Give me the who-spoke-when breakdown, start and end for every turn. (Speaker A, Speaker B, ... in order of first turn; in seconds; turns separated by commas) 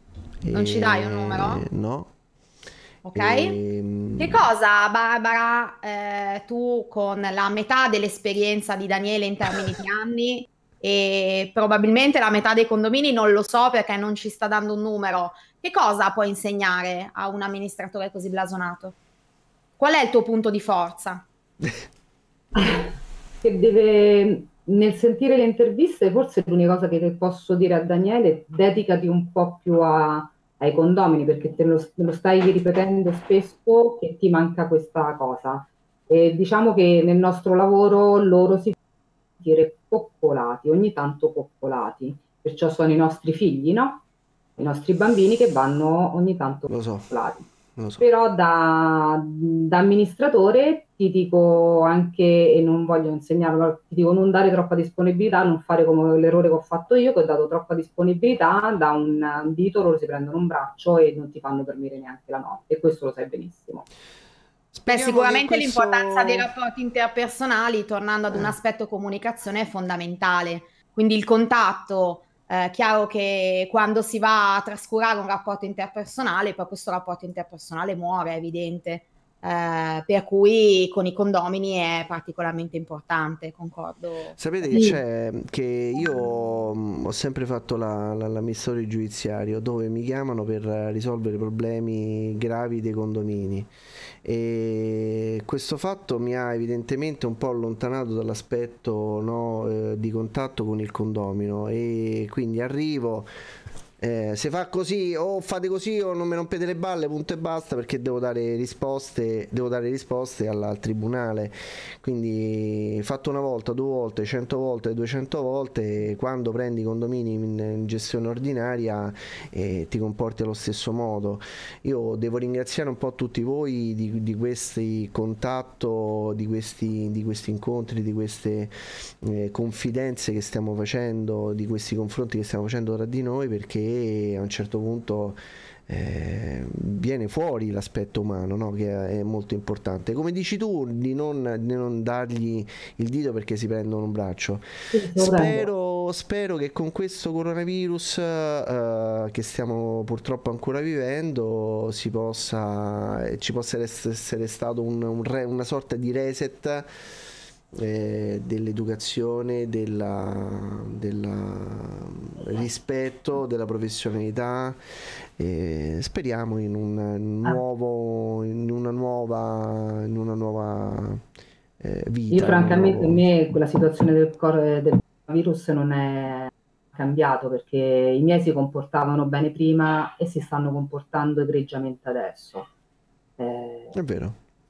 Speaker A: 0.4-2.1, Speaker B: 0.5-1.6, Speaker B: 3.0-3.5, Speaker A: 3.1-4.4, Speaker B: 4.2-18.9, Speaker B: 19.8-21.2, Speaker C: 22.5-38.8, Speaker C: 39.4-44.0, Speaker C: 44.6-63.9, Speaker A: 46.7-47.1, Speaker A: 47.7-48.1, Speaker A: 64.7-66.5, Speaker B: 64.9-84.4, Speaker A: 84.4-93.7, Speaker C: 84.7-85.0, Speaker A: 94.2-103.3, Speaker A: 104.0-156.9, Speaker C: 144.9-145.7, Speaker A: 157.7-164.8, Speaker A: 165.4-171.2, Speaker A: 171.8-173.2, Speaker C: 172.3-182.7, Speaker C: 183.4-183.9, Speaker A: 183.9-184.4